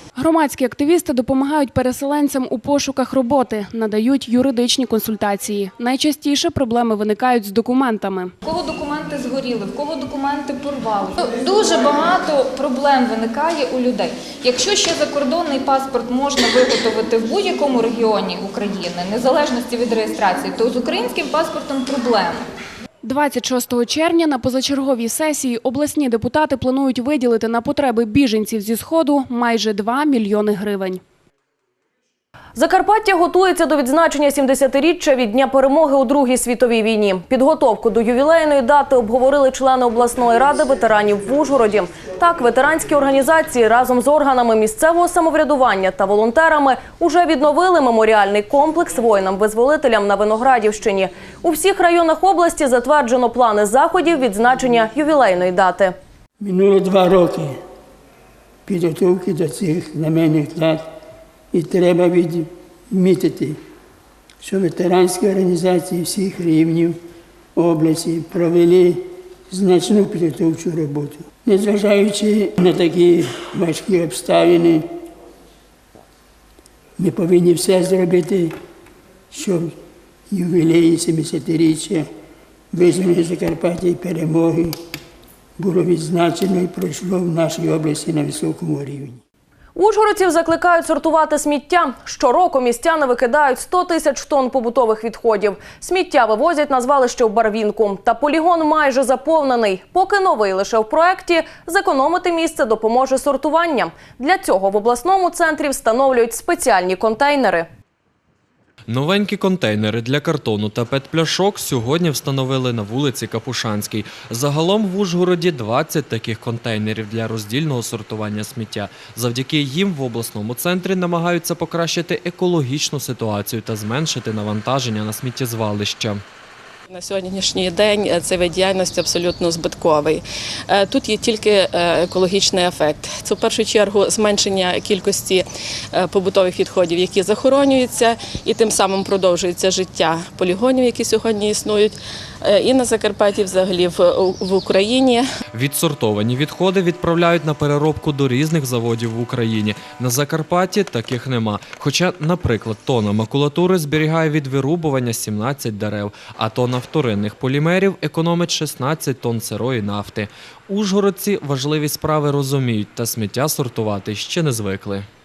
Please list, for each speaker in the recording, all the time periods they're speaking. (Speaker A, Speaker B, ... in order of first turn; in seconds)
Speaker A: 0.1-8.3, 23.0-31.0
Speaker B: 8.4-22.4
Speaker C: 32.5-56.0, 89.8-107.7
Speaker D: 56.4-57.5, 58.6-60.8, 61.5-63.6, 64.4-67.0, 67.5-74.8, 77.0-78.5, 79.3-79.7, 80.3-82.0, 82.7-84.7, 85.6-89.2
Speaker E: 108.9-126.2, 145.5-165.1
Speaker F: 126.9-145.2